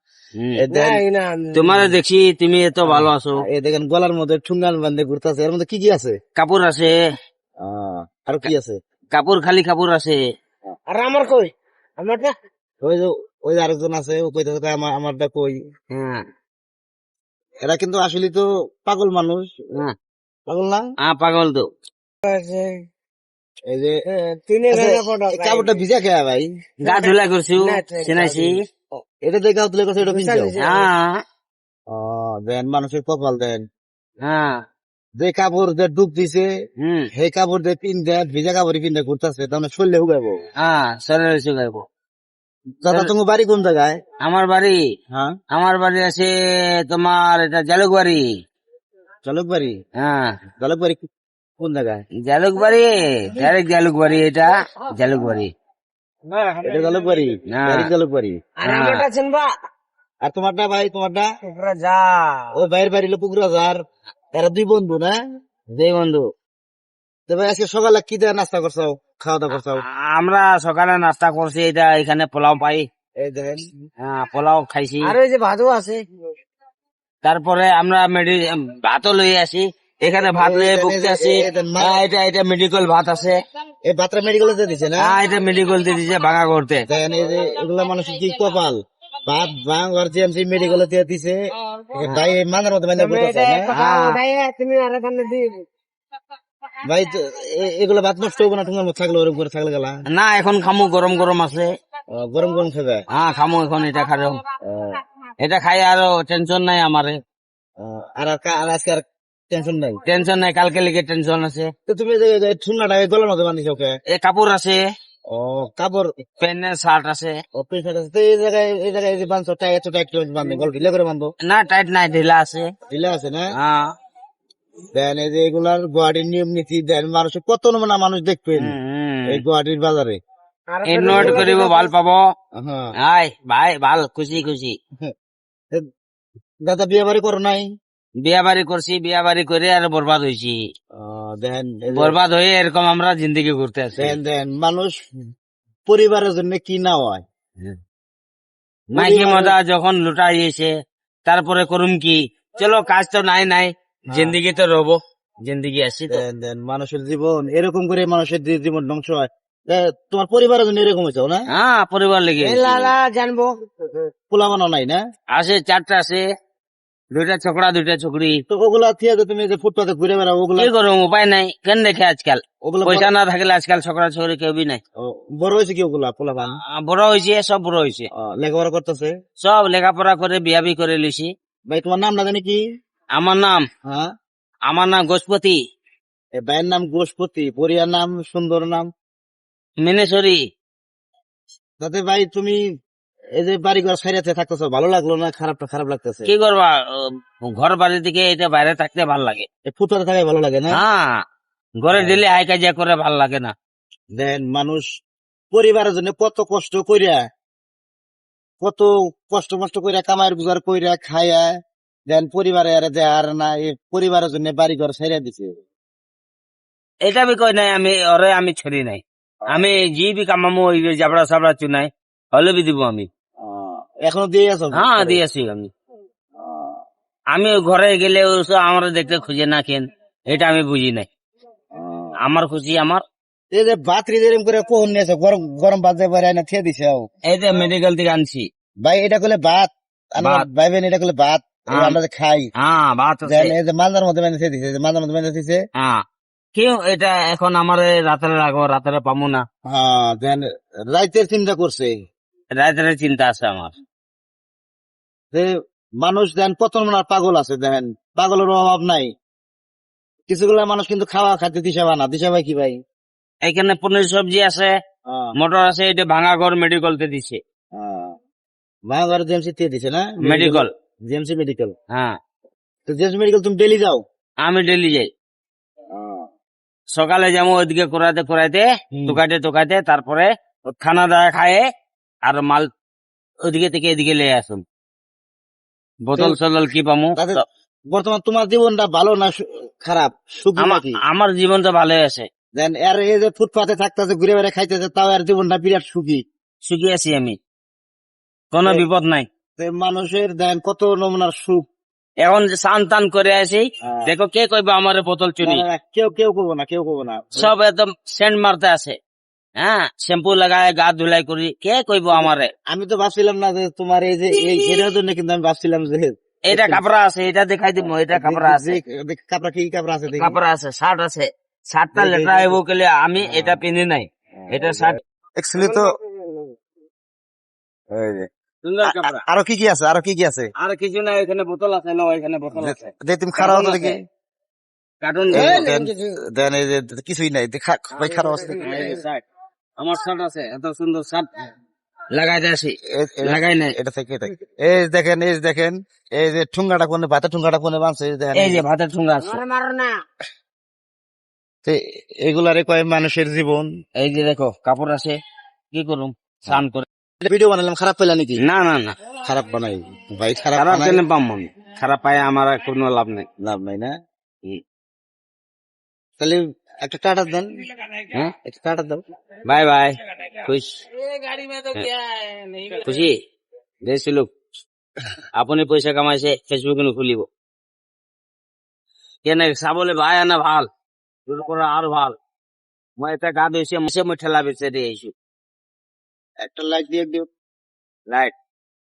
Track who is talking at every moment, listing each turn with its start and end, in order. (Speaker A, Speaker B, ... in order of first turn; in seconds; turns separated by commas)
Speaker A: 0.4-0.6, Speaker B: 0.6-1.0, Speaker C: 0.7-1.9, Speaker A: 1.5-3.4, Speaker B: 2.9-6.2, Speaker A: 6.4-6.9, Speaker B: 7.6-8.8, Speaker A: 9.1-10.2, Speaker C: 10.9-12.3, Speaker B: 12.8-15.6, Speaker A: 15.9-16.2, Speaker B: 17.7-19.5, Speaker B: 20.5-20.8, Speaker A: 21.0-21.7, Speaker C: 22.2-22.9, Speaker B: 23.7-24.0, Speaker C: 24.1-25.8, Speaker B: 24.7-26.5, Speaker C: 26.8-28.6, Speaker A: 26.8-28.6, Speaker B: 29.2-30.6, Speaker C: 30.0-30.9, Speaker A: 30.6-31.2, Speaker B: 31.9-33.6, Speaker A: 34.2-34.6, Speaker B: 35.2-36.5, Speaker A: 36.8-37.1, Speaker B: 37.1-40.4, Speaker A: 40.6-41.9, Speaker B: 42.8-44.0, Speaker A: 44.2-44.8, Speaker A: 45.5-46.3, Speaker A: 46.8-48.3, Speaker B: 49.2-49.8, Speaker A: 50.0-50.4, Speaker B: 50.6-51.1, Speaker B: 51.6-52.0, Speaker A: 52.2-55.5, Speaker C: 56.3-57.2, Speaker B: 56.6-58.4, Speaker A: 57.5-57.9, Speaker C: 58.6-59.6, Speaker A: 58.6-59.1, Speaker B: 60.2-61.3, Speaker C: 61.4-62.6, Speaker B: 62.5-63.8, Speaker B: 64.3-65.2, Speaker A: 65.7-66.2, Speaker B: 67.3-69.8, Speaker A: 69.5-72.9, Speaker B: 73.2-73.7, Speaker A: 74.0-75.2, Speaker C: 75.0-76.0, Speaker A: 77.2-83.4, Speaker B: 80.4-82.0, Speaker B: 83.9-85.1, Speaker A: 85.0-86.9, Speaker B: 86.9-91.4, Speaker B: 91.9-93.7, Speaker C: 93.0-95.7, Speaker A: 93.7-94.2, Speaker B: 96.8-100.0, Speaker A: 100.1-101.7, Speaker B: 102.1-103.0, Speaker A: 103.1-104.4, Speaker B: 104.6-105.0, Speaker A: 105.4-107.2, Speaker B: 107.8-110.0, Speaker A: 110.0-111.7, Speaker B: 111.9-114.0, Speaker A: 114.1-114.8, Speaker B: 115.3-116.1, Speaker A: 116.4-117.4, Speaker B: 117.5-121.3, Speaker A: 121.4-122.7, Speaker B: 122.9-123.5, Speaker A: 123.6-123.9, Speaker B: 124.9-128.8, Speaker A: 128.6-129.4, Speaker B: 129.3-130.2, Speaker C: 130.7-131.9, Speaker A: 130.8-132.3, Speaker B: 131.1-131.5, Speaker B: 132.6-132.9, Speaker A: 133.0-134.8, Speaker B: 136.7-137.7, Speaker A: 138.2-140.6, Speaker B: 141.0-142.2, Speaker A: 141.9-144.2, Speaker B: 144.0-145.0, Speaker B: 145.9-147.2, Speaker A: 148.9-150.7, Speaker B: 148.9-149.5, Speaker A: 151.3-156.2, Speaker B: 154.1-154.4, Speaker B: 156.1-161.5, Speaker A: 161.5-162.9, Speaker C: 162.4-164.1, Speaker B: 164.3-165.0, Speaker A: 165.3-166.2, Speaker A: 167.1-168.4, Speaker B: 168.5-170.7, Speaker A: 170.6-174.8, Speaker B: 172.6-173.1, Speaker B: 175.0-176.6, Speaker A: 176.7-178.1, Speaker B: 178.2-179.1, Speaker A: 179.4-181.3, Speaker B: 181.7-182.6, Speaker A: 183.1-183.7, Speaker B: 183.9-184.1, Speaker A: 184.7-185.6, Speaker B: 186.4-188.9, Speaker A: 189.8-190.4, Speaker B: 191.8-192.6, Speaker B: 193.4-196.3, Speaker A: 196.2-199.5, Speaker B: 199.7-200.8, Speaker A: 200.7-201.2, Speaker A: 201.8-203.5, Speaker B: 201.9-202.2, Speaker B: 204.2-204.9, Speaker B: 205.5-207.2, Speaker B: 208.6-211.5, Speaker B: 212.1-215.5, Speaker A: 217.0-223.1, Speaker B: 223.4-225.2, Speaker A: 224.8-225.7, Speaker B: 226.4-226.8, Speaker A: 227.3-231.1, Speaker B: 231.8-232.2, Speaker A: 232.2-233.0, Speaker B: 233.5-237.1, Speaker A: 237.3-238.5, Speaker B: 238.8-242.5, Speaker A: 240.2-240.5, Speaker A: 241.7-242.0, Speaker A: 242.6-243.6, Speaker B: 243.2-245.6, Speaker A: 245.8-246.0, Speaker A: 246.6-249.5, Speaker B: 249.7-251.9, Speaker A: 252.6-253.7, Speaker B: 256.0-259.1, Speaker B: 260.3-262.8, Speaker A: 263.4-264.8, Speaker B: 265.1-265.4, Speaker A: 265.4-267.4, Speaker B: 267.8-268.2, Speaker B: 268.9-271.7, Speaker A: 270.2-270.7, Speaker A: 271.9-272.2, Speaker B: 272.9-274.0, Speaker A: 274.4-275.1, Speaker B: 275.9-276.3, Speaker A: 276.9-281.6, Speaker B: 278.9-279.2, Speaker A: 282.2-282.7, Speaker A: 283.5-284.6, Speaker A: 286.0-287.4, Speaker B: 287.2-291.0, Speaker A: 290.6-292.3, Speaker B: 292.6-296.2, Speaker A: 296.6-297.4, Speaker A: 298.5-299.3, Speaker B: 299.6-301.7, Speaker A: 302.2-305.6, Speaker B: 303.9-304.1, Speaker B: 305.4-307.5, Speaker A: 307.4-309.0, Speaker A: 309.6-312.5, Speaker B: 312.1-316.8, Speaker A: 316.5-318.8, Speaker B: 318.1-320.4, Speaker A: 320.1-325.0, Speaker B: 321.9-322.6, Speaker B: 323.2-323.6, Speaker B: 324.4-326.0, Speaker C: 325.6-326.6, Speaker B: 327.9-328.3, Speaker A: 328.6-329.2, Speaker B: 328.9-330.5, Speaker A: 330.6-334.0, Speaker B: 332.6-334.0, Speaker A: 335.0-335.7, Speaker B: 335.3-338.9, Speaker C: 335.4-336.2, Speaker C: 338.2-339.0, Speaker A: 338.6-339.2, Speaker A: 339.8-341.5, Speaker A: 342.1-343.8, Speaker B: 342.9-348.6, Speaker A: 348.4-349.4, Speaker C: 349.2-350.0, Speaker B: 351.6-353.7, Speaker A: 354.0-355.2, Speaker A: 355.7-356.9, Speaker B: 357.2-358.4, Speaker A: 358.4-359.0, Speaker B: 359.2-361.0, Speaker A: 360.6-363.3, Speaker B: 363.4-363.9, Speaker B: 366.2-367.7, Speaker B: 368.5-369.0, Speaker A: 369.4-370.9, Speaker C: 371.0-372.8, Speaker A: 372.8-373.2, Speaker A: 373.8-374.3, Speaker A: 375.4-377.3, Speaker A: 379.2-380.7, Speaker A: 381.3-382.1, Speaker A: 383.0-385.1, Speaker B: 386.4-387.3